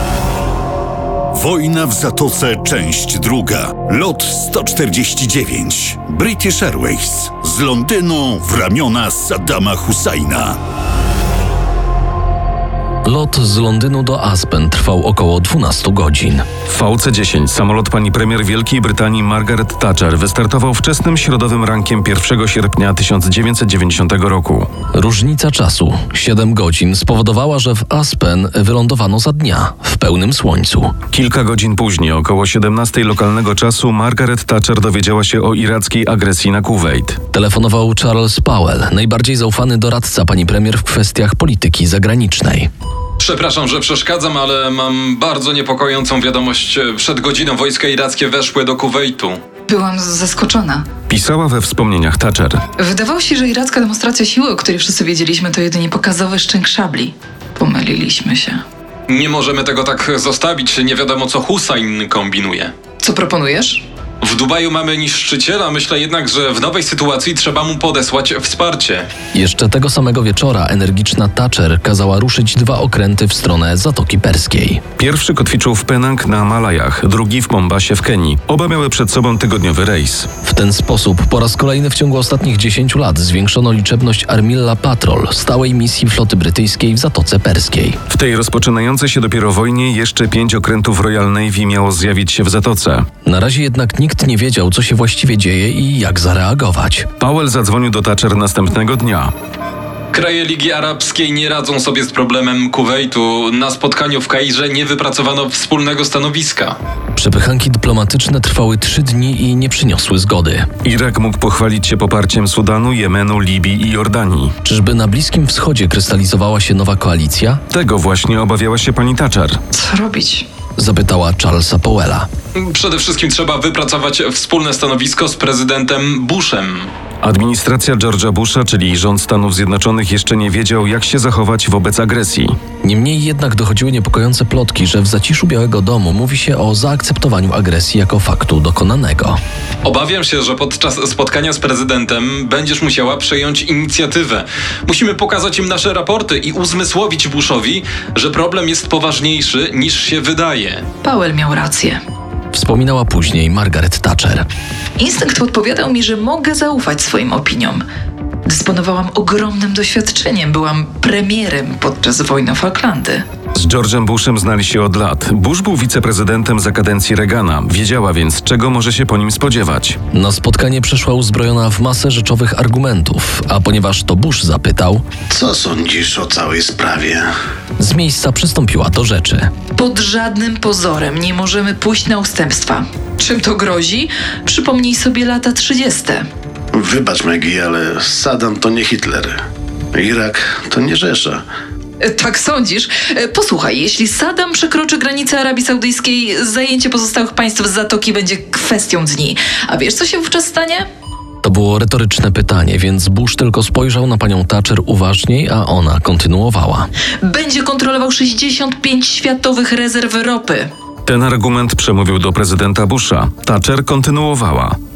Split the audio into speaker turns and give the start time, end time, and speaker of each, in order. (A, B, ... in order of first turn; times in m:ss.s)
0:01.3-0:10.6 A
0:13.0-0:16.5 B
0:16.7-0:24.7 C
0:25.0-0:31.0 B
0:31.1-0:37.2 C
0:37.3-0:42.7 B
0:43.2-0:49.4 D
0:49.7-0:50.8 E
0:51.1-0:52.6 C
0:52.8-0:58.6 E
0:59.1-1:02.7 D
1:03.0-1:03.8 E
1:04.2-1:09.1 D
1:09.3-1:14.8 B
1:15.0-1:20.3 C
1:20.4-1:28.0 B
1:28.1-1:33.1 C
1:33.2-1:37.1 B
1:37.2-1:39.3 C
1:40.1-1:46.8 D
1:47.2-1:50.7 B
1:50.8-1:54.5 C
1:54.6-1:57.6 B
1:57.7-1:59.6 C
1:59.7-2:00.4 E
2:00.8-2:02.3 B
2:02.6-2:06.9 D
2:07.2-2:12.6 C
2:12.8-2:19.4 B
2:19.8-2:30.8 D
2:31.0-2:32.0 E
2:32.5-2:34.5 B
2:35.0-2:37.8 E
2:38.4-2:43.2 E
2:43.6-2:50.0 C
2:50.1-2:55.0 B
2:55.3-2:57.3 F
2:57.8-2:59.5 B
2:59.8-3:06.2 E
3:06.7-3:09.4 F
3:09.9-3:11.4 F
3:12.0-3:20.9 E
3:21.4-3:26.9 B
3:27.2-3:30.7 E
3:31.1-3:34.8 C